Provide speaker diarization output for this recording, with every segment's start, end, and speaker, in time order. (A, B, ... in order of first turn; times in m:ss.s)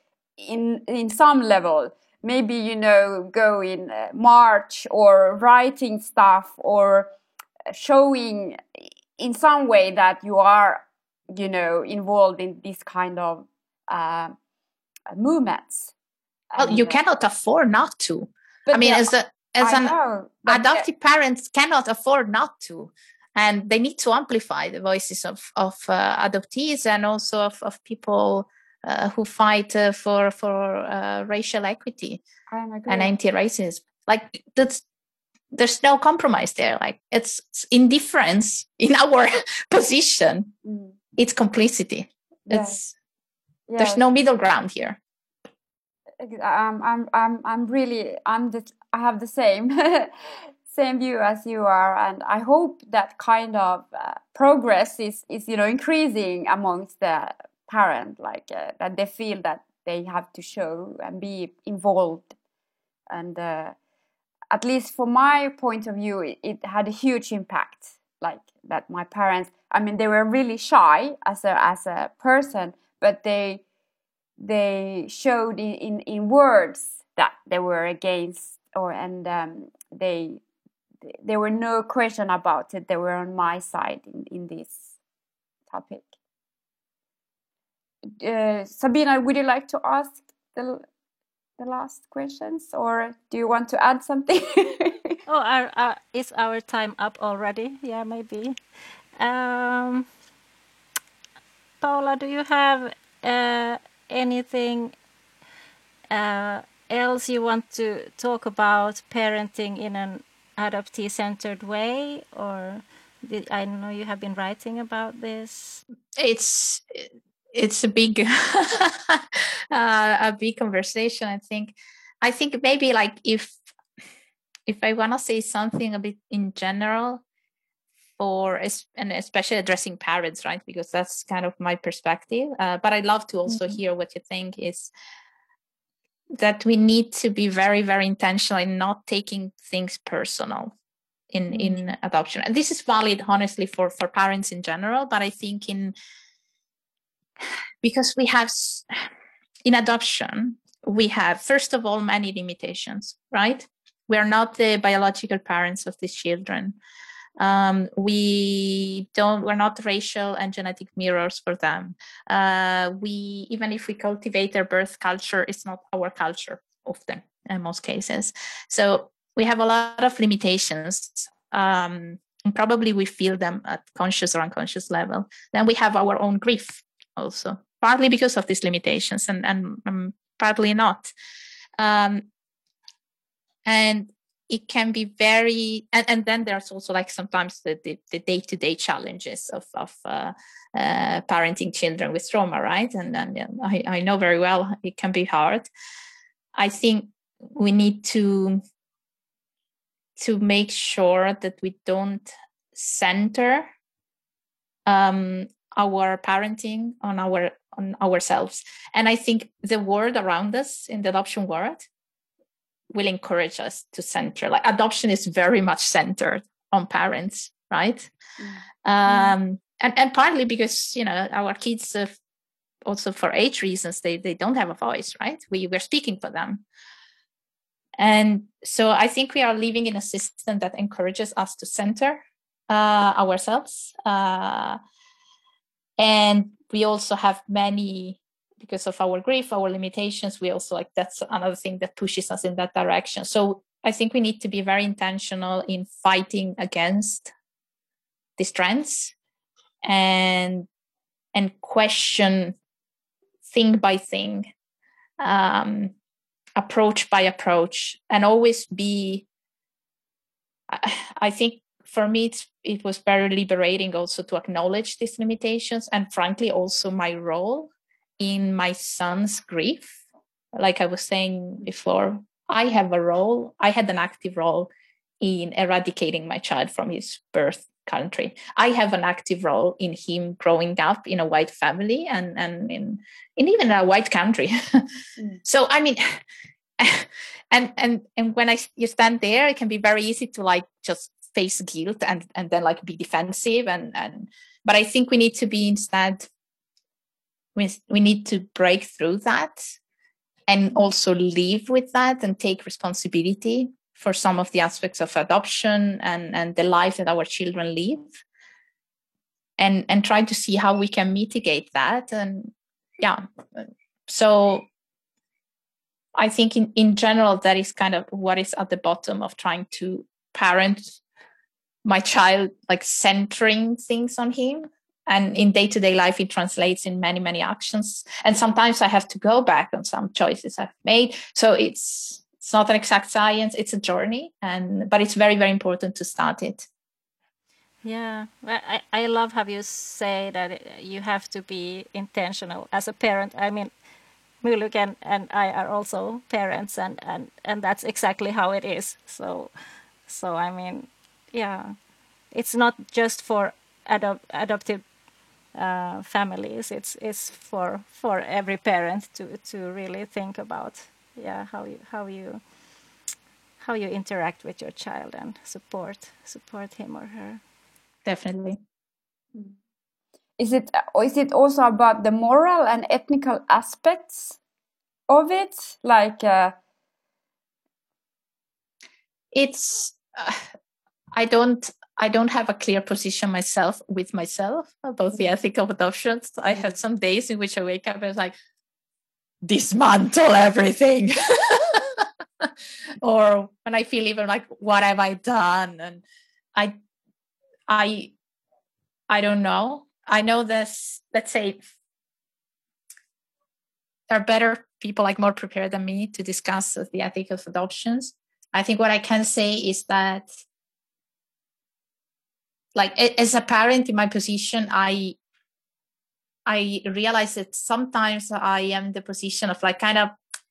0:00.4-0:07.1 A
0:07.7-0:14.4 A
0:15.1-0:15.9 A
0:16.5-0:17.0 A
0:16.6-0:20.0 B
0:18.7-0:20.9 A
0:20.5-0:32.2 B
0:32.5-0:33.1 A
0:32.9-0:34.8 B
0:35.5-0:40.5 B
0:40.6-0:41.0 A
0:41.2-0:42.9 B
0:42.5-0:42.8 A
0:43.7-0:44.0 A
0:43.8-0:45.0 B
0:46.2-1:02.3 A
1:03.1-1:03.8 A
1:04.5-1:13.6 A
1:14.4-1:20.4 A
1:21.1-1:24.9 A
1:25.7-1:26.1 A
1:28.2-1:30.8 A
1:31.6-1:35.2 A
1:35.3-1:38.6 C
1:39.2-1:40.1 C
1:41.8-1:44.9 C
1:46.1-1:55.8 C
1:56.2-2:03.6 B
2:04.7-2:07.2 B
2:08.2-2:14.9 B
2:13.5-2:13.8 A
2:16.4-2:20.8 B
2:21.3-2:26.0 B
2:27.8-2:28.9 B
2:29.6-2:36.8 B
2:37.4-3:01.1 B
3:01.8-3:02.3 B
3:03.7-3:15.7 B
3:16.6-3:18.6 B
3:20.2-3:23.7 B
3:24.9-3:31.9 B
3:32.9-3:38.1 B
3:38.4-3:39.4 A
3:38.8-3:42.1 B
3:42.9-3:46.6 B
3:48.0-3:54.8 B
3:56.0-4:07.3 B
4:08.4-4:09.2 B
4:09.8-4:10.7 B
4:11.3-4:12.6 B
4:13.5-4:14.5 B
4:15.2-4:15.9 B
4:16.6-4:19.3 B
4:20.7-4:30.0 B
4:30.6-4:34.7 B
4:35.2-4:44.8 B
4:45.4-4:46.2 B
4:46.8-4:56.3 B
4:57.6-4:59.6 B
5:00.5-5:08.2 B
5:09.6-5:14.7 B
5:16.2-5:21.0 B
5:21.8-5:36.7 B
5:37.8-5:43.7 C
5:44.4-5:49.5 C
5:50.1-5:51.8 C
5:52.3-5:54.8 C
5:55.5-6:02.4 C
6:03.6-6:07.4 C
6:08.1-6:08.6 B
6:10.4-6:14.4 A
6:15.1-6:16.6 A
6:19.3-6:20.4 B
6:21.1-6:28.3 B
6:29.4-6:32.5 B
6:33.0-6:36.0 B
6:37.7-6:38.1 B
6:39.1-6:41.6 B
6:44.1-6:50.3 B
6:52.8-6:55.2 B
6:56.5-7:00.2 B